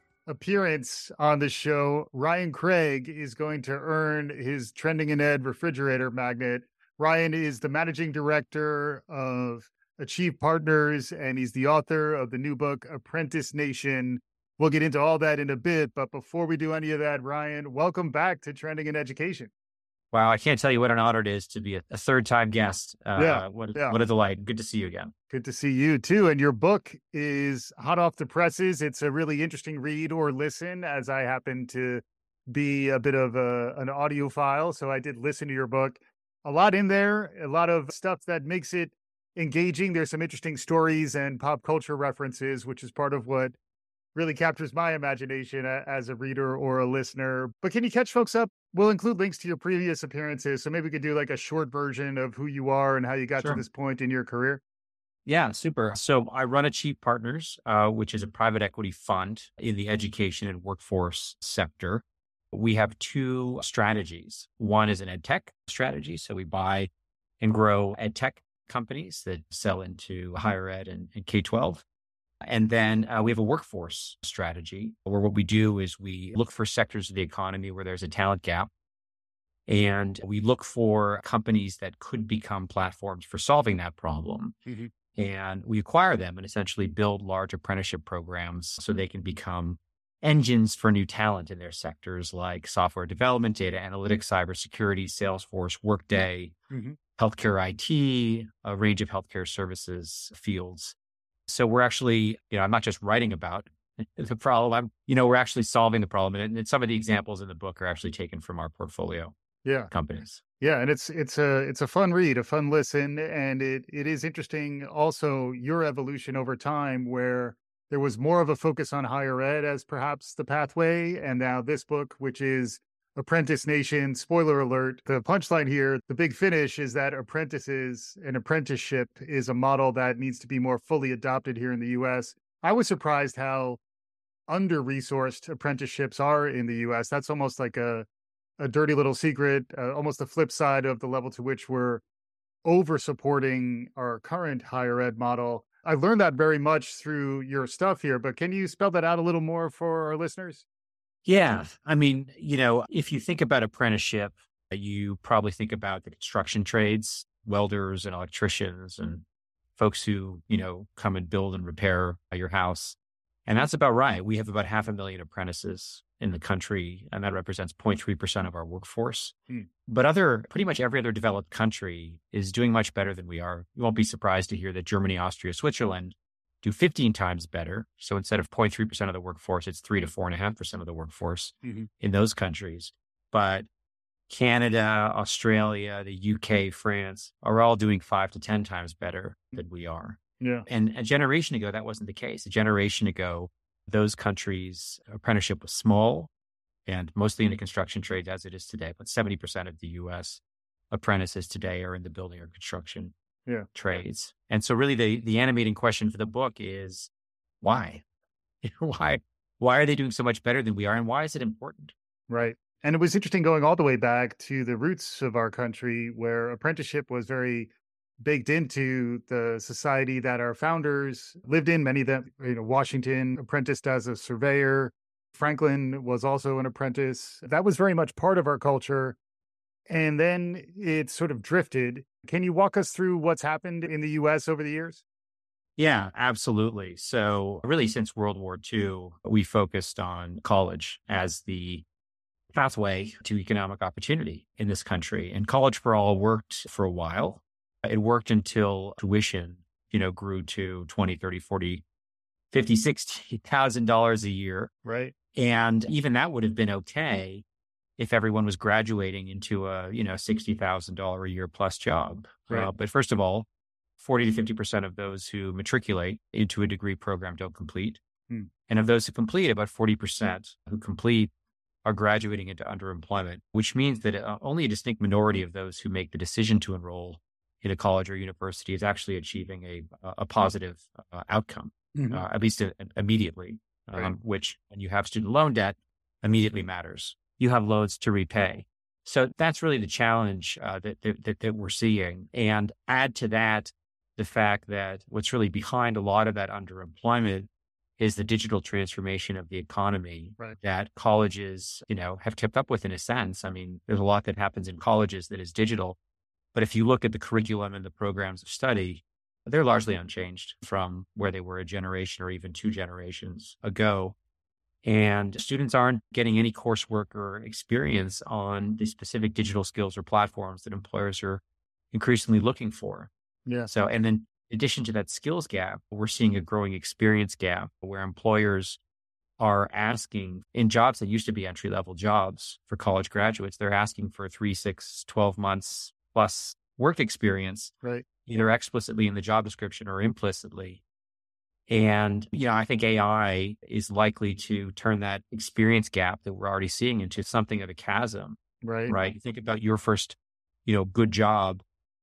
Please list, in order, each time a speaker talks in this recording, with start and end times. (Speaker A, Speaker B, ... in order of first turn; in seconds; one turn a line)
Speaker A: 0.3-19.5
Speaker B: 20.1-25.1
Speaker A: 23.1-24.0
Speaker A: 25.3-43.5
Speaker A: 44.1-54.6
Speaker B: 55.2-66.9
Speaker B: 67.4-71.8
Speaker B: 72.4-78.7
Speaker B: 79.7-84.6
Speaker B: 85.1-96.5
Speaker A: 96.7-97.0
Speaker B: 97.2-100.9
Speaker B: 101.5-109.3
Speaker A: 109.6-109.9
Speaker B: 109.9-110.4
Speaker A: 110.6-133.8
Speaker A: 134.5-138.1
Speaker A: 138.6-142.0
Speaker A: 142.6-150.6
Speaker B: 151.2-159.2
Speaker B: 159.8-183.7
Speaker A: 181.6-181.9
Speaker B: 184.3-196.3
Speaker A: 190.4-190.7
Speaker B: 196.9-203.1
Speaker B: 203.7-207.1
Speaker B: 207.6-208.0
Speaker B: 208.6-211.9
Speaker A: 212.3-229.2
Speaker A: 229.9-235.0
Speaker B: 235.8-241.8
Speaker B: 242.5-251.8
Speaker B: 252.5-254.7
Speaker A: 254.8-255.1
Speaker B: 255.3-257.4
Speaker B: 258.0-263.5
Speaker B: 264.0-268.0
Speaker B: 268.7-271.3
Speaker B: 271.8-297.5
Speaker A: 281.9-282.2
Speaker B: 298.0-306.0
Speaker B: 306.5-314.1
Speaker B: 314.8-323.1
Speaker A: 323.4-323.7
Speaker B: 323.7-328.8
Speaker B: 329.4-337.7
Speaker B: 338.2-340.8
Speaker B: 341.7-351.6
Speaker A: 348.6-348.9